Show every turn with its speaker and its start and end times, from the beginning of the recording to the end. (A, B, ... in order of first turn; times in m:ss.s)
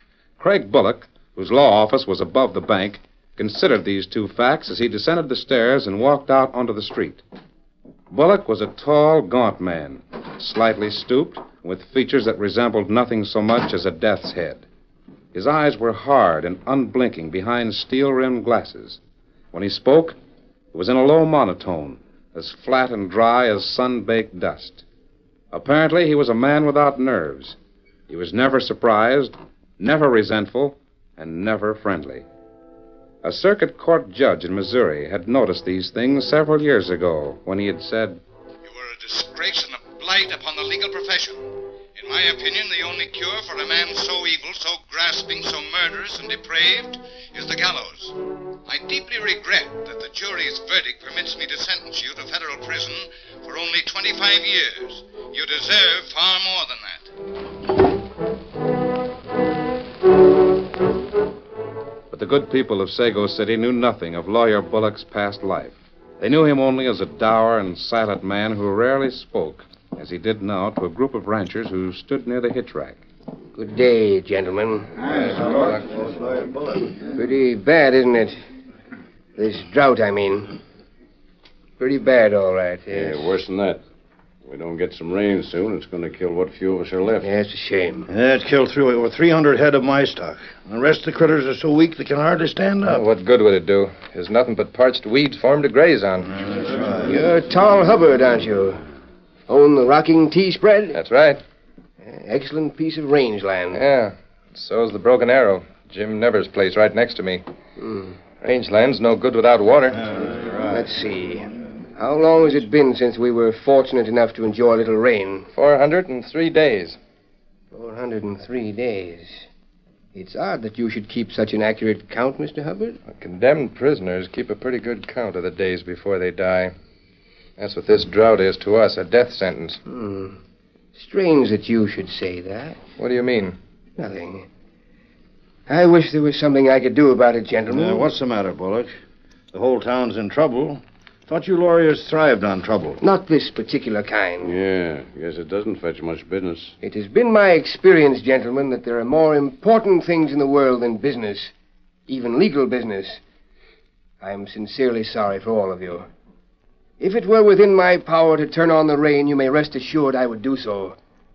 0:00.4-0:07.2 A
0:08.1-0:14.7 A
0:15.3-0:19.0 A
0:19.5-0:20.2 A
0:20.7-0:24.8 A
0:25.5-0:27.6 A
0:28.1-0:32.2 A
0:33.2-0:38.2 A
0:38.6-0:57.1 B
1:02.1-1:13.0 A
1:13.6-1:15.8 C
1:15.1-1:16.9 D
1:17.1-1:18.4 C
1:19.4-1:20.6 C
1:21.8-1:23.3 C
1:22.9-1:23.8 E
1:24.4-1:27.3 E
1:27.2-1:28.1 C
1:28.1-1:33.0 D
1:32.8-1:36.4 F
1:37.0-1:38.8 C
1:39.5-1:41.0 C
1:41.0-1:41.4 F
1:42.0-1:43.8 C
1:43.7-1:47.4 F
1:47.8-1:48.2 C
1:48.4-1:50.1 F
1:50.1-1:50.8 D
1:50.7-1:55.5 C
1:55.5-1:57.0 F
1:57.7-1:59.5 C
2:00.1-2:03.0 C
2:03.1-2:06.7 F
2:07.6-2:09.8 F
2:09.9-2:10.4 C
2:11.0-2:12.8 C
2:13.0-2:13.6 F
2:14.0-2:14.5 C
2:15.7-2:18.1 C
2:17.7-2:18.9 D
2:19.5-2:23.0 D
2:23.0-2:24.5 C
2:24.4-2:26.8 E
2:26.8-2:31.5 C
2:32.1-2:33.2 C
2:34.2-2:36.1 C
2:37.0-2:41.0 C